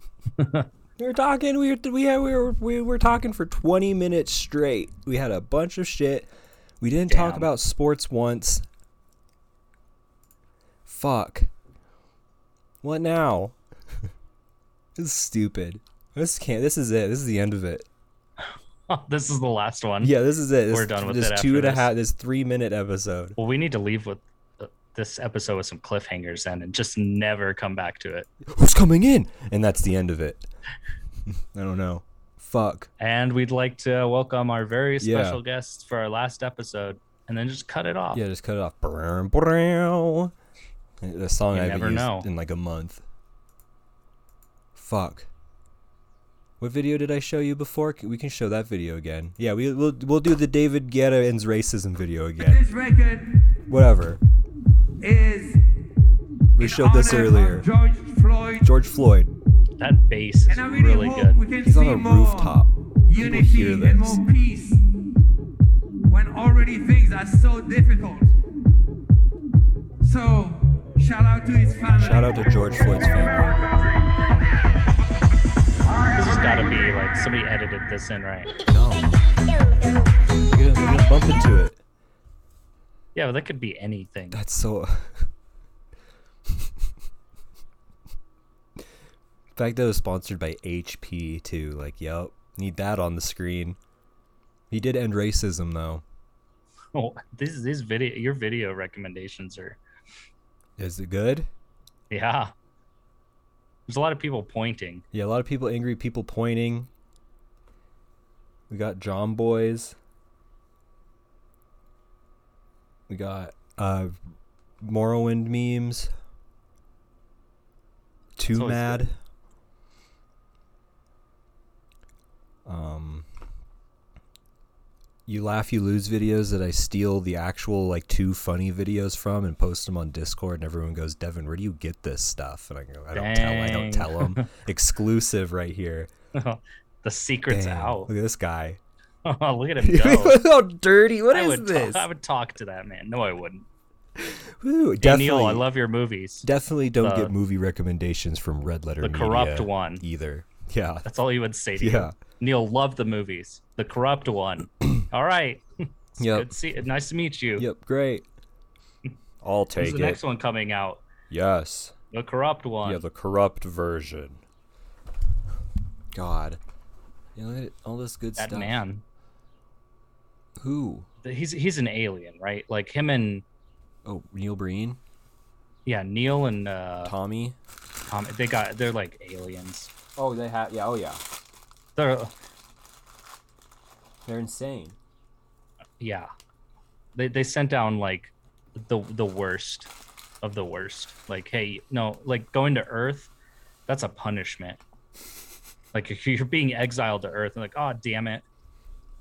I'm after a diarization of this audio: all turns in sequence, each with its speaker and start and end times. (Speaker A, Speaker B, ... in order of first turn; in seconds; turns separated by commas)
Speaker A: 0.4-0.7, Speaker B: 1.0-8.6, Speaker A: 7.1-7.5, Speaker B: 10.8-11.5, Speaker B: 12.8-13.6, Speaker B: 14.9-17.9, Speaker A: 18.9-20.1, Speaker B: 20.0-23.4, Speaker A: 20.7-21.9, Speaker A: 23.4-28.3, Speaker B: 28.4-30.5, Speaker B: 31.3-32.9, Speaker A: 33.0-38.2, Speaker B: 35.0-35.4, Speaker B: 38.1-40.3, Speaker B: 41.0-43.0, Speaker A: 41.5-42.3, Speaker B: 44.7-45.3, Speaker B: 46.6-52.6, Speaker C: 52.4-53.6, Speaker B: 53.7-54.2, Speaker C: 55.0-55.6, Speaker B: 56.5-57.7, Speaker C: 56.5-58.7, Speaker B: 58.6-59.3, Speaker A: 59.8-61.4, Speaker C: 60.5-64.8, Speaker B: 61.6-64.2, Speaker C: 66.1-68.3, Speaker C: 70.0-73.9, Speaker B: 72.0-73.7, Speaker A: 76.2-78.5, Speaker B: 78.7-79.1, Speaker B: 80.5-81.8, Speaker A: 83.1-84.4, Speaker B: 84.3-85.3, Speaker B: 89.5-93.8, Speaker B: 94.7-96.0, Speaker A: 96.9-99.8, Speaker B: 100.8-101.5, Speaker A: 102.1-102.5, Speaker A: 103.9-105.0, Speaker B: 105.1-106.9, Speaker B: 108.7-110.0, Speaker B: 113.1-114.1, Speaker B: 114.8-116.1, Speaker B: 118.4-119.2, Speaker A: 118.5-119.1, Speaker B: 122.7-123.3, Speaker B: 125.2-136.1, Speaker A: 133.1-134.5, Speaker A: 136.3-138.1, Speaker B: 137.5-138.8, Speaker A: 139.2-140.4, Speaker B: 139.8-142.1, Speaker A: 141.3-143.7, Speaker B: 144.2-145.7, Speaker A: 145.0-147.3, Speaker B: 146.4-151.1, Speaker A: 149.0-150.0, Speaker A: 151.0-157.7, Speaker B: 151.8-152.1, Speaker B: 156.2-156.5, Speaker B: 157.6-158.2, Speaker B: 159.4-160.2, Speaker A: 159.8-161.0, Speaker B: 161.3-161.9, Speaker A: 162.1-163.0, Speaker B: 162.8-164.4, Speaker B: 166.1-166.6, Speaker B: 167.3-168.8, Speaker A: 168.4-169.0, Speaker B: 170.6-171.1, Speaker A: 171.2-173.4, Speaker B: 174.0-175.0, Speaker A: 175.8-177.1, Speaker B: 177.0-177.6, Speaker A: 178.1-179.9, Speaker B: 180.2-181.2, Speaker A: 181.9-182.3, Speaker B: 184.2-185.0, Speaker A: 186.0-186.3, Speaker A: 187.2-189.9, Speaker A: 190.4-193.3, Speaker A: 193.9-194.8, Speaker A: 195.9-198.4